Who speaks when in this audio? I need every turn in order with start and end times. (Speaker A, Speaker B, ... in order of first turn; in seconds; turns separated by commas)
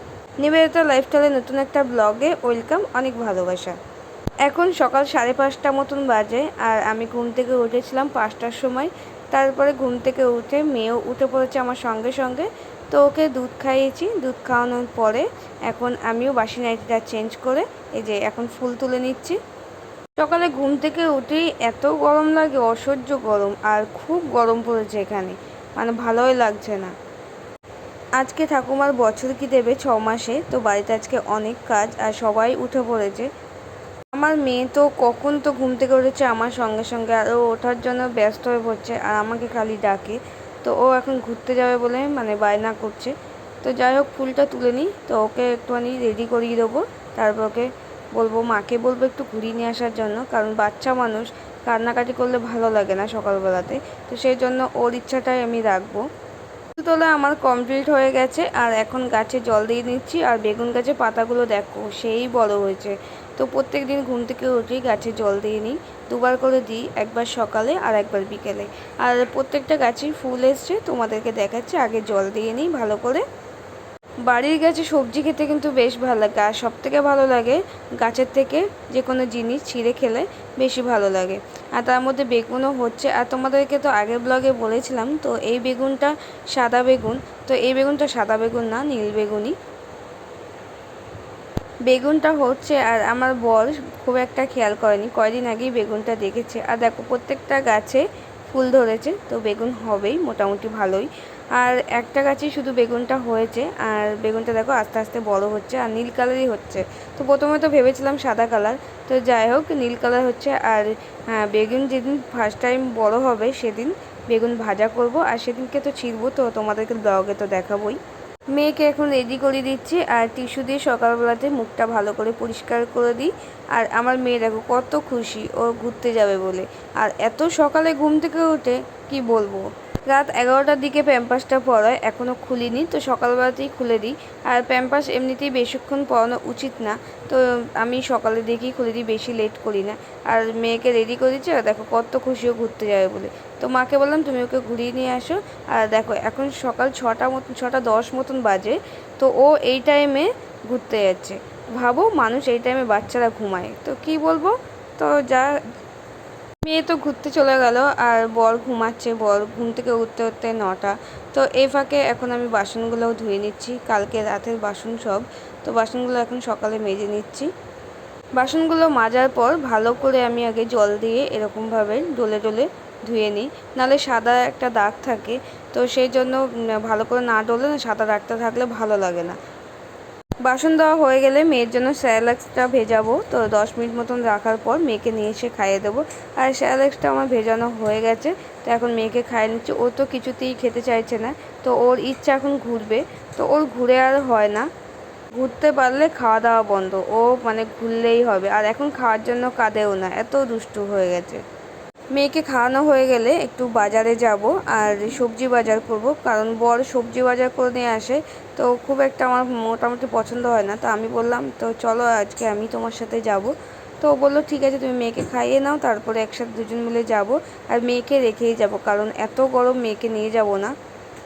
Speaker A: 0.4-3.8, Speaker A: 4.5-19.4, Speaker A: 20.2-26.9, Speaker A: 28.2-33.3, Speaker A: 34.1-56.0, Speaker A: 56.8-73.3, Speaker A: 74.2-89.6, Speaker A: 91.9-118.0, Speaker A: 118.5-155.6, Speaker A: 156.6-167.5, Speaker A: 168.4-179.4, Speaker A: 180.4-194.7, Speaker A: 195.3-201.4, Speaker A: 202.1-220.7